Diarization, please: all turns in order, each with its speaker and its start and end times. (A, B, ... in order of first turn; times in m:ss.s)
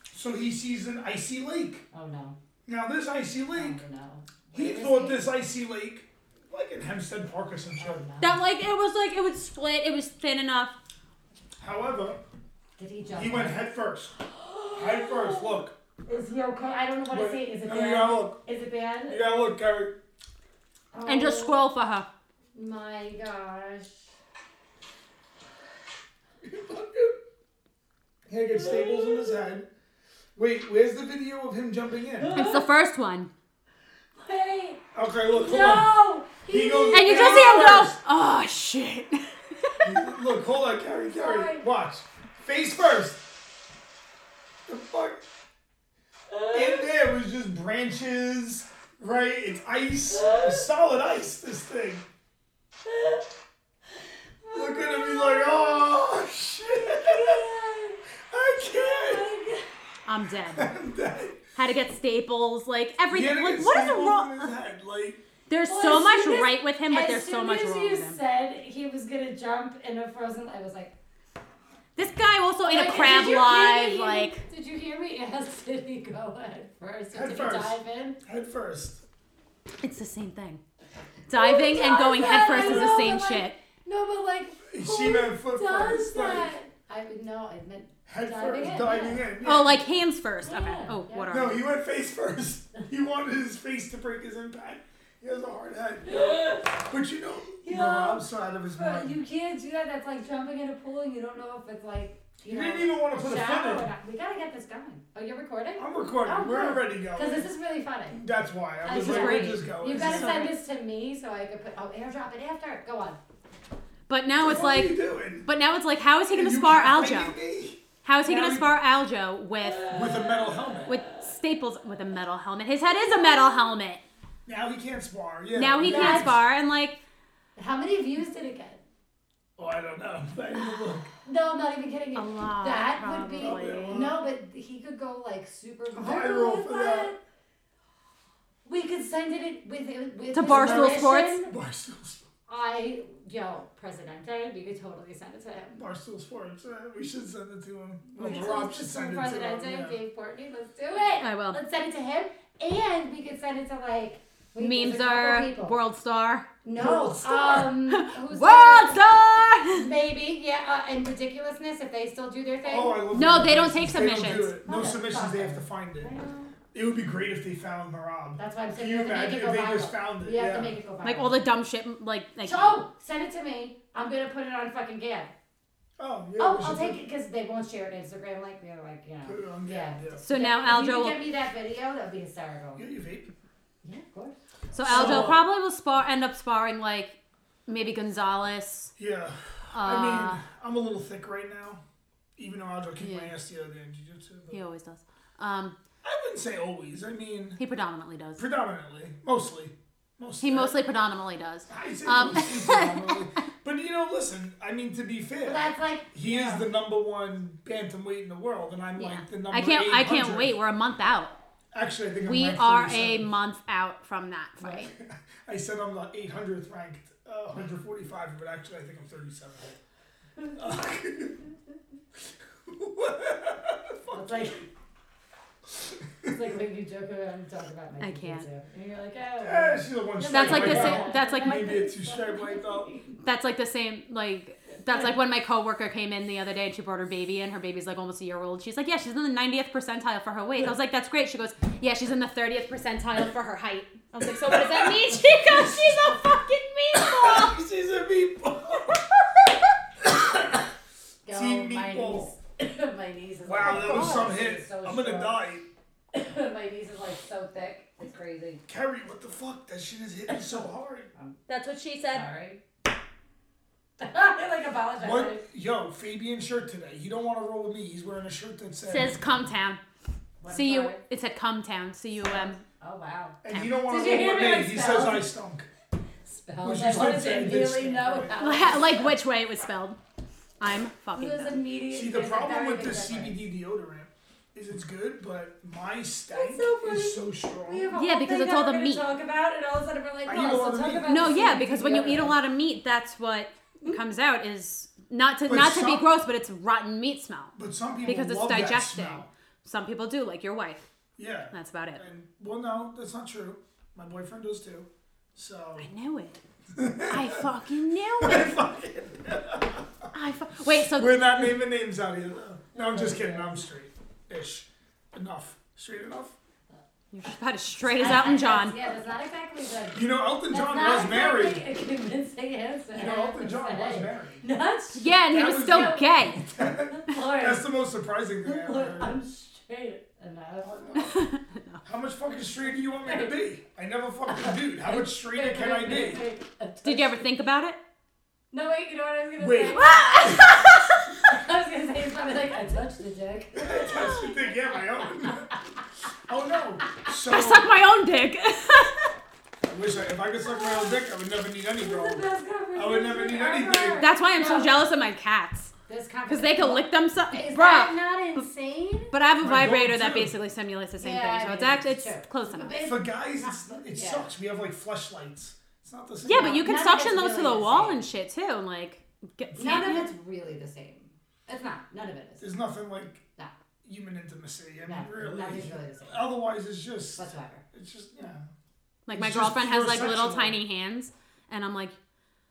0:00.1-0:01.8 A
0:01.9-0:02.4 B
0:02.7-0:03.8 A
0:03.5-0:05.3 B
0:04.5-0:08.0 A
0:07.8-0:08.4 B
0:08.2-0:10.8 C
0:11.6-0:12.2 A
0:12.8-0:13.7 B
0:13.1-0:14.1 A
0:14.3-0:19.3 B
0:14.7-0:15.8 A
0:17.1-0:18.4 A
0:19.1-0:20.0 A
0:20.9-0:21.6 B
0:21.1-0:22.1 C
0:22.6-0:24.1 B
0:26.4-0:27.2 A
0:28.3-0:29.7 A
0:28.5-0:29.4 B
0:30.4-0:32.4 A
0:32.2-0:32.7 B
0:32.3-0:33.3 C
0:34.2-0:37.9 B
0:35.0-0:38.0 A
0:36.9-0:39.8 C
0:39.8-0:43.3 A
0:41.1-0:41.7 B
0:44.7-0:45.3 A
0:46.3-0:46.9 B
0:46.5-0:52.1 A
0:50.1-0:50.7 B
0:52.9-0:53.2 B
0:54.4-0:55.9 B
0:54.5-0:57.4 A
0:56.6-0:58.0 B
0:58.3-0:59.3 A
0:58.7-0:59.7 B
1:00.1-1:00.7 C
1:00.5-1:01.4 A
1:01.6-1:04.5 C
1:03.1-1:05.2 A
1:05.5-1:08.2 C
1:05.7-1:10.9 B
1:12.0-1:14.4 C
1:12.7-1:18.2 B
1:17.1-1:19.0 A
1:19.8-1:20.6 C
1:21.3-1:23.6 C
1:21.3-1:29.3 B
1:22.6-1:23.1 A
1:24.7-1:26.5 A
1:28.1-1:29.9 A
1:29.4-1:31.6 C
1:30.4-1:31.3 B
1:31.3-1:39.2 A
1:36.0-1:36.8 B
1:37.6-1:48.2 B
1:42.4-1:43.9 A
1:45.8-1:47.5 A
1:48.1-1:50.5 A
1:48.8-1:53.2 B
1:48.9-1:50.6 C
1:54.1-1:57.4 C
1:54.4-1:55.5 A
1:56.3-1:58.7 A
1:58.0-2:00.0 C
1:58.3-1:58.6 B
1:59.6-2:01.3 B
1:59.9-2:01.0 A
2:00.9-2:04.0 C
2:02.9-2:03.8 B
2:04.5-2:06.4 A
2:05.6-2:07.0 C
2:05.8-2:06.4 B
2:07.6-2:08.8 B
2:09.6-2:11.1 A
2:11.2-2:17.2 B
2:12.2-2:14.0 C
2:13.4-2:14.2 A
2:15.9-2:17.1 A
2:18.6-2:21.5 B
2:20.3-2:21.4 C
2:20.5-2:22.2 A
2:22.5-2:25.8 B
2:25.8-2:30.0 A
2:28.1-2:35.8 B
2:28.2-2:28.6 C
2:31.0-2:31.6 C
2:34.6-2:36.5 C
2:36.6-2:39.2 B
2:36.8-2:37.7 A
2:37.9-2:39.9 C
2:39.7-2:43.0 B
2:42.6-2:46.1 A
2:43.1-2:44.6 C
2:44.6-2:46.5 B
2:46.7-2:50.8 A
2:48.4-2:51.4 B
2:51.0-2:52.8 C
2:52.4-2:55.3 B
2:56.0-2:57.0 A
2:56.4-3:02.9 B
2:59.2-3:00.2 A
3:00.2-3:01.2 C
3:02.8-3:03.3 A
3:03.8-3:05.4 B
3:04.7-3:08.9 C
3:04.8-3:05.4 A
3:09.0-3:11.8 A
3:09.7-3:10.4 C
3:12.4-3:14.6 A
3:13.0-3:13.3 C
3:14.5-3:15.8 C
3:16.0-3:17.6 A
3:17.6-3:18.4 C
3:18.4-3:20.8 A
3:20.4-3:23.3 C
3:21.7-3:30.6 A
3:25.4-3:26.7 B
3:29.0-3:31.3 C
3:31.7-3:33.4 A
3:32.2-3:34.9 C
3:34.6-3:34.9 B
3:34.9-3:39.8 A
3:40.6-3:41.5 A
3:42.2-3:44.7 A
3:44.1-3:44.6 B
3:45.7-3:46.5 A
3:46.3-3:53.2 B
3:48.0-3:48.5 C
3:49.4-3:52.9 A
3:50.3-3:51.8 C
3:53.2-4:07.6 C
4:04.2-4:06.2 A
4:06.9-4:09.3 A
4:10.0-4:10.6 A
4:11.2-4:15.4 B
4:11.3-4:12.3 A
4:13.4-4:15.7 A
4:13.6-4:14.3 C
4:16.1-4:18.6 B
4:18.7-4:21.1 A
4:21.5-4:22.3 C
4:22.1-4:22.6 B
4:24.0-4:25.4 B
4:25.0-4:29.2 A
4:28.9-4:29.8 C
4:30.4-4:31.0 B
4:30.5-4:32.6 C
4:32.3-4:35.3 B
4:33.4-4:35.7 A
4:33.5-4:33.8 C
4:36.2-4:39.2 B
4:36.6-4:38.7 A
4:38.4-4:40.0 C
4:40.6-4:41.6 C
4:41.2-4:43.4 B
4:41.9-4:47.9 A
4:46.3-4:52.4 B
4:48.0-4:49.1 C
4:50.2-4:51.2 A
4:51.1-5:00.8 C
4:55.4-4:56.1 A
4:57.6-4:59.3 A
5:01.2-5:05.9 A
5:01.5-5:02.0 C
5:05.8-5:06.4 C
5:06.8-5:07.4 A
5:07.0-5:08.6 C
5:08.2-5:10.1 A
5:10.1-5:11.3 C
5:10.8-5:16.4 A
5:12.7-5:13.7 B
5:17.1-5:18.8 C
5:17.9-5:27.6 B
5:19.9-5:21.6 A
5:22.9-5:24.4 A
5:25.0-5:26.4 C
5:25.3-5:29.2 A
5:28.4-5:31.1 B
5:30.6-5:31.3 A
5:31.0-5:31.8 C
5:31.8-5:36.2 A
5:33.0-5:33.3 B
5:34.3-5:37.2 B
5:36.8-5:37.8 C
5:38.5-5:40.0 B
5:39.4-5:40.7 A
5:39.7-5:41.0 C
5:41.2-5:43.9 B
5:43.5-5:45.6 A
5:46.3-5:47.7 A
5:47.1-5:49.1 C
5:49.6-5:54.0 A
5:51.8-5:54.8 B
5:54.0-5:55.7 C
5:55.9-5:59.1 B
5:56.3-5:58.5 C
5:59.1-6:02.8 C
5:59.4-6:00.4 A
6:01.0-6:04.3 B
6:02.8-6:06.7 A
6:06.2-6:10.1 C
6:06.3-6:08.1 B
6:09.5-6:12.5 B
6:12.4-6:13.2 A
6:13.8-6:18.5 A
6:14.9-6:16.3 B
6:17.2-6:17.6 B
6:19.1-6:22.0 C
6:19.1-6:20.6 A